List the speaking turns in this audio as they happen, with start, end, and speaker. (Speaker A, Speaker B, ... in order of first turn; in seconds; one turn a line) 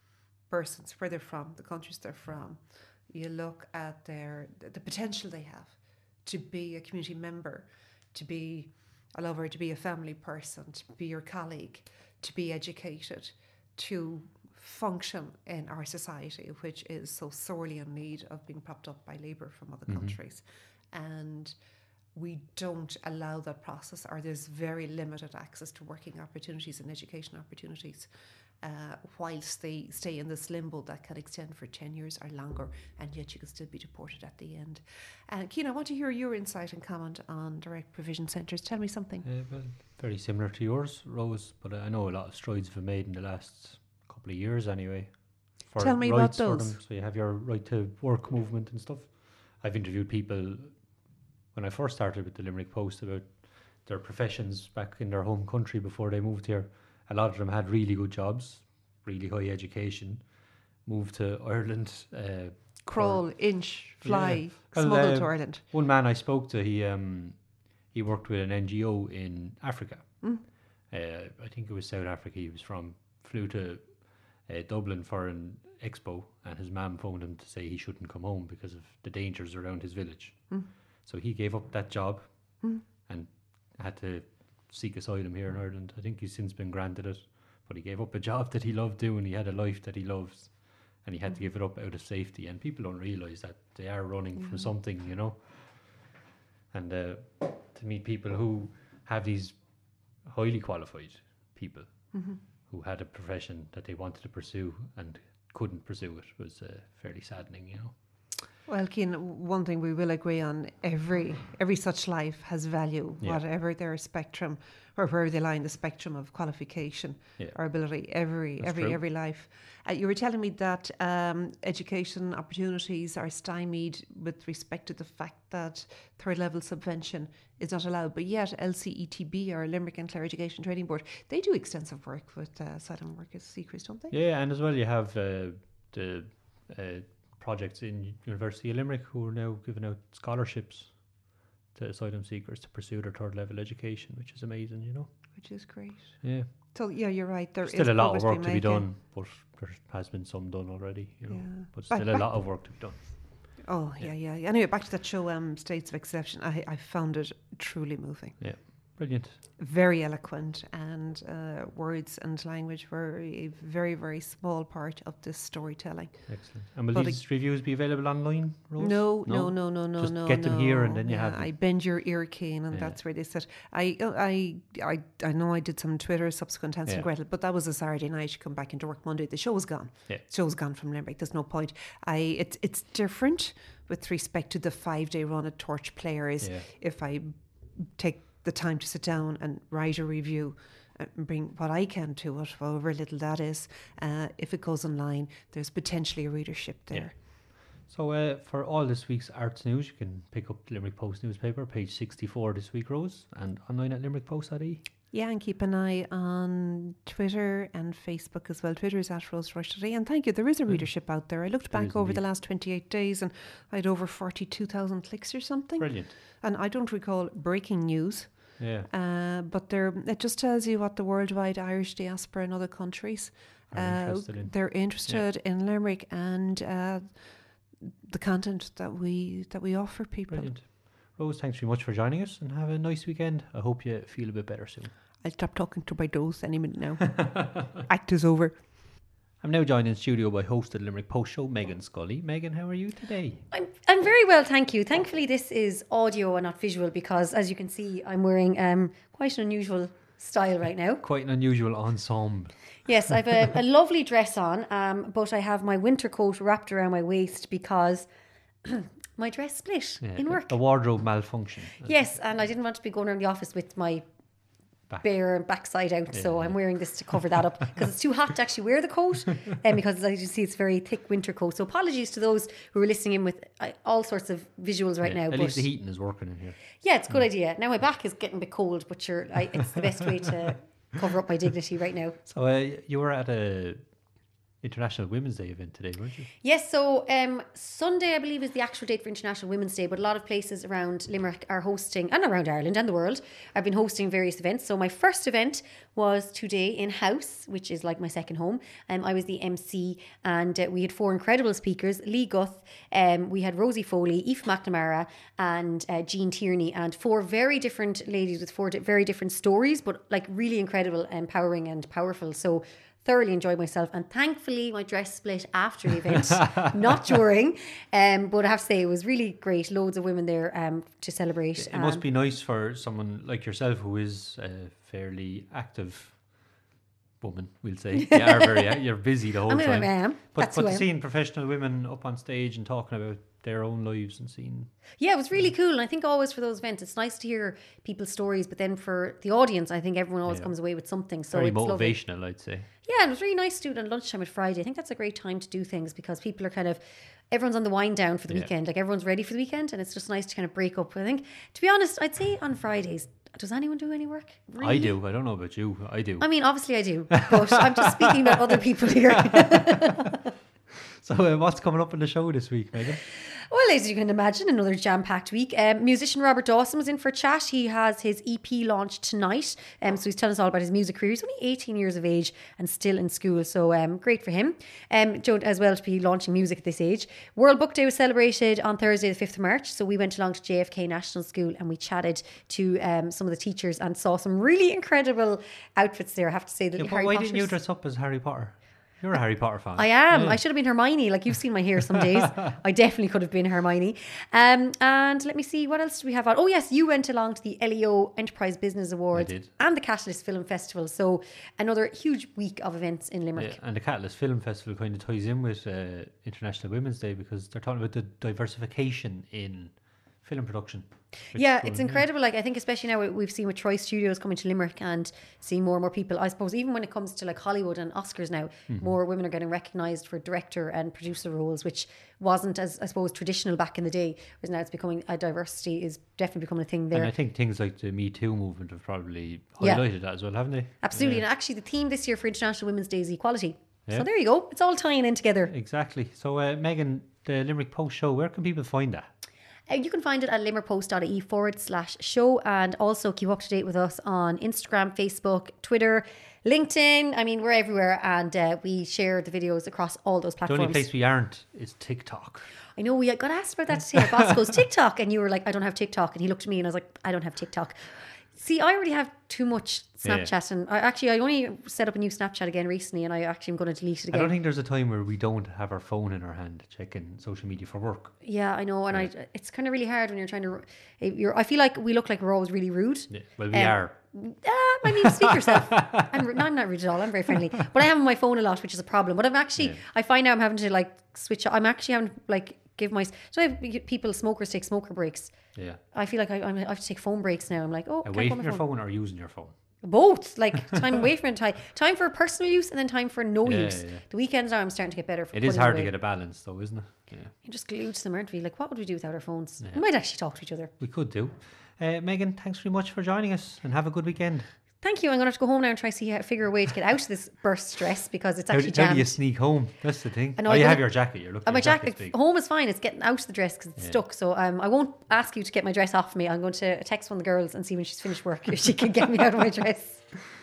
Speaker A: 0.5-21.5
Speaker B: 19.9-20.2
Speaker A: 22.1-39.2
Speaker B: 39.2-96.1
Speaker A: 45.8-46.8
Speaker A: 62.8-65.6
Speaker A: 94.4-94.7
Speaker B: 96.7-108.2
Speaker A: 102.1-102.4
Speaker A: 108.7-134.1
Speaker B: 118.6-119.0
Speaker B: 134.1-145.4
Speaker A: 145.3-148.9
Speaker B: 146.2-146.7
Speaker B: 147.6-154.1
Speaker A: 151.3-153.0
Speaker A: 153.6-158.9
Speaker B: 158.4-159.4
Speaker A: 159.6-167.2
Speaker B: 166.3-171.5
Speaker A: 168.8-197.1
Speaker B: 172.7-173.0
Speaker B: 186.4-186.7
Speaker B: 196.9-204.8
Speaker A: 205.1-230.5
Speaker B: 210.7-212.2
Speaker B: 215.8-216.1
Speaker B: 218.6-218.9
Speaker B: 223.7-225.2
Speaker B: 230.3-234.9
Speaker A: 235.2-238.6
Speaker B: 239.4-243.4
Speaker C: 243.5-251.0
Speaker B: 251.0-253.2
Speaker C: 252.8-258.1
Speaker C: 258.6-260.6
Speaker B: 260.0-261.9
Speaker C: 261.8-264.1
Speaker C: 265.0-275.7
Speaker B: 266.1-267.2
Speaker B: 275.0-277.2
Speaker C: 276.8-282.2
Speaker B: 282.2-284.0
Speaker B: 284.6-286.3
Speaker C: 286.4-322.0
Speaker B: 321.6-326.5
Speaker B: 327.2-334.7
Speaker C: 328.1-328.4
Speaker C: 329.5-330.9
Speaker C: 335.0-342.0
Speaker B: 340.3-340.5
Speaker B: 341.3-342.7
Speaker C: 342.8-354.9
Speaker B: 354.6-356.2
Speaker C: 356.2-360.1
Speaker B: 357.1-357.8
Speaker B: 359.3-359.8
Speaker B: 361.0-363.0
Speaker C: 363.5-387.5
Speaker B: 386.8-390.4
Speaker C: 389.7-403.6
Speaker B: 399.1-399.5
Speaker B: 403.4-412.0
Speaker C: 411.3-427.1
Speaker B: 418.7-418.9
Speaker B: 426.9-431.2
Speaker C: 429.6-429.9
Speaker C: 430.8-435.5
Speaker B: 435.5-439.1
Speaker C: 439.7-450.9
Speaker B: 450.5-452.5
Speaker C: 452.8-464.3
Speaker B: 460.0-460.3
Speaker B: 464.1-468.2
Speaker C: 468.2-488.6
Speaker B: 473.1-474.0
Speaker B: 474.8-476.1
Speaker B: 485.5-485.8
Speaker B: 488.0-489.6
Speaker C: 489.8-496.0
Speaker B: 493.4-494.0
Speaker B: 495.3-497.3
Speaker C: 497.4-500.7
Speaker B: 500.8-504.5
Speaker C: 504.8-509.6
Speaker B: 508.5-512.1
Speaker C: 510.4-520.3